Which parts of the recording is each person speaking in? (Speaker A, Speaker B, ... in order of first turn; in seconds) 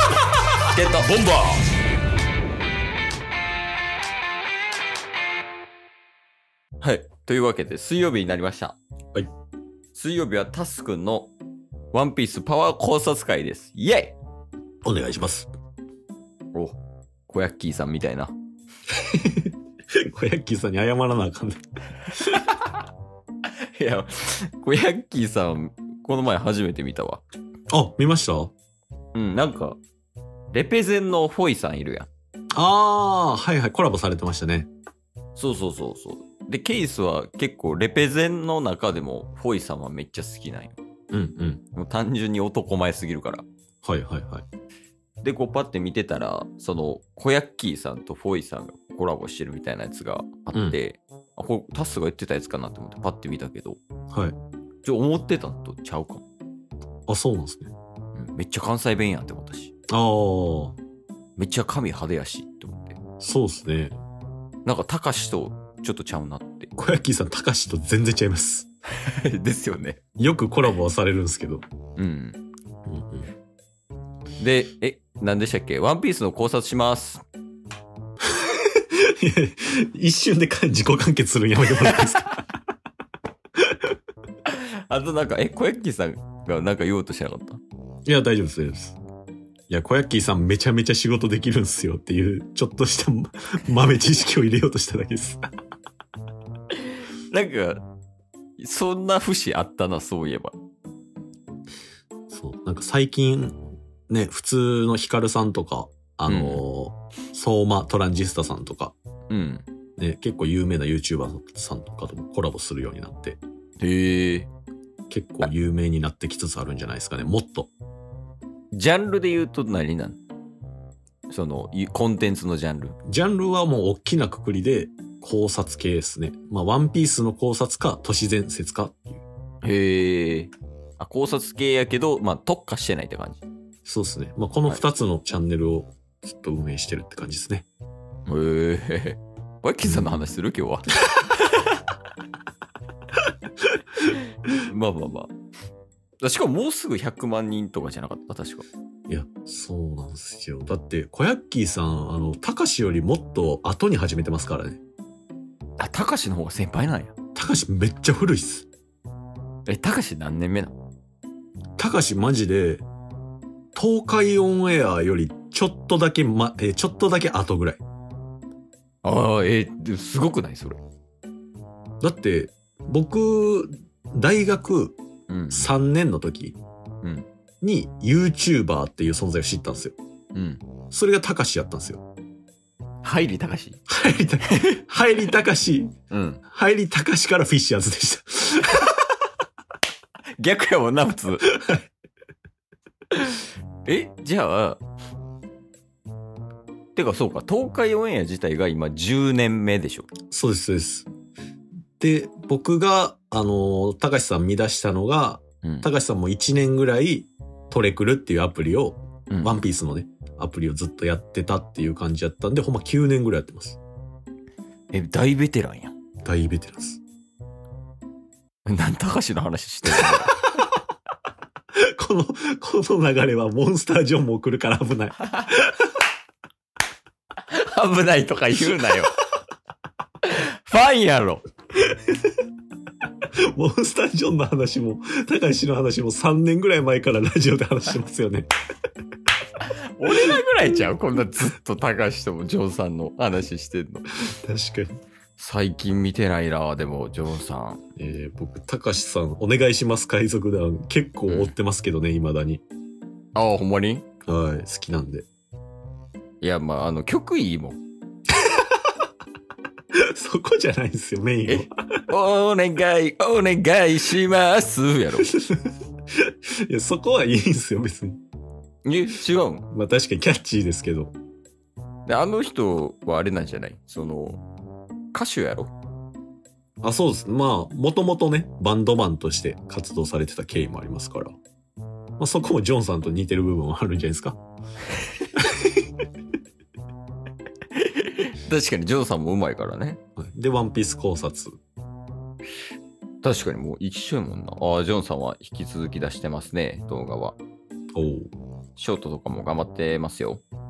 Speaker A: 0.7-1.1, 6.8-8.8, 9.9-11.3, 11.9-14.1, 17.3-18.3, 22.3-22.8, 23.6-27.2, 29.1-29.8, 30.5-32.1, 35.4-40.8, 41.7-43.4, 45.2-53.8, 54.8-56.2, 58.1-59.7, 61.4-63.0, 64.6-66.7, 69.0-70.0, 72.0-72.4, 74.4-77.2, 84.4-87.6, 96.8-97.8, 98.6-100.5, 106.3-106.6, 109.3-109.6, 113.8-114.5, 118.7-120.2, 121.3-123.0, 129.6-133.4, 138.3-141.8, 144.5-145.3, 146.2-148.6, 155.8-157.1, 159.7-160.7, 169.0-170.8, 175.3-175.7, 180.3-180.6, 183.0-183.8, 184.5-184.8, 186.1-186.4, 190.4-191.5, 193.1-194.8, 196.9-200.1, 209.3-209.6, 214.9-215.9, 218.7-220.5, 227.4-229.1, 230.2-231.4, 239.6-244.1, 245.4-247.8, 251.3-251.5, 253.3-254.1, 256.4-257.8, 261.5-265.3, 268.8-269.7, 272.1-274.4, 275.1-275.7, 287.7-290.0, 293.2-297.4, 298.8-300.4
Speaker B: 1.0-1.6, 14.8-15.5, 18.9-19.5, 20.0-22.4, 27.7-28.5, 32.5-34.7, 41.1-41.6, 43.8-44.5, 57.1-57.7, 59.9-60.8, 63.2-64.0, 66.8-68.7, 70.2-71.6, 72.9-73.3, 78.4-82.3, 88.0-89.0, 89.7-95.4, 102.3-108.9, 110.0-113.4, 115.1-117.7, 123.1-129.2, 133.8-137.7, 139.8-140.1, 149.1-154.8, 157.3-158.7, 161.8-162.8, 163.7-167.8, 172.0-174.9, 175.5-176.6, 177.6-179.9, 180.9-182.0, 183.9-185.9, 186.4-188.9, 191.5-191.8, 200.3-201.1, 202.0-213.8, 216.2-217.0, 221.8-225.9, 233.5-238.5, 244.3-245.0, 248.0-252.6, 254.3-255.2, 259.9-261.7, 265.3-265.7, 266.2-268.2, 269.7-271.1, 276.8-281.3, 282.2-284.4, 285.3-285.9, 290.1-291.5, 297.9-298.3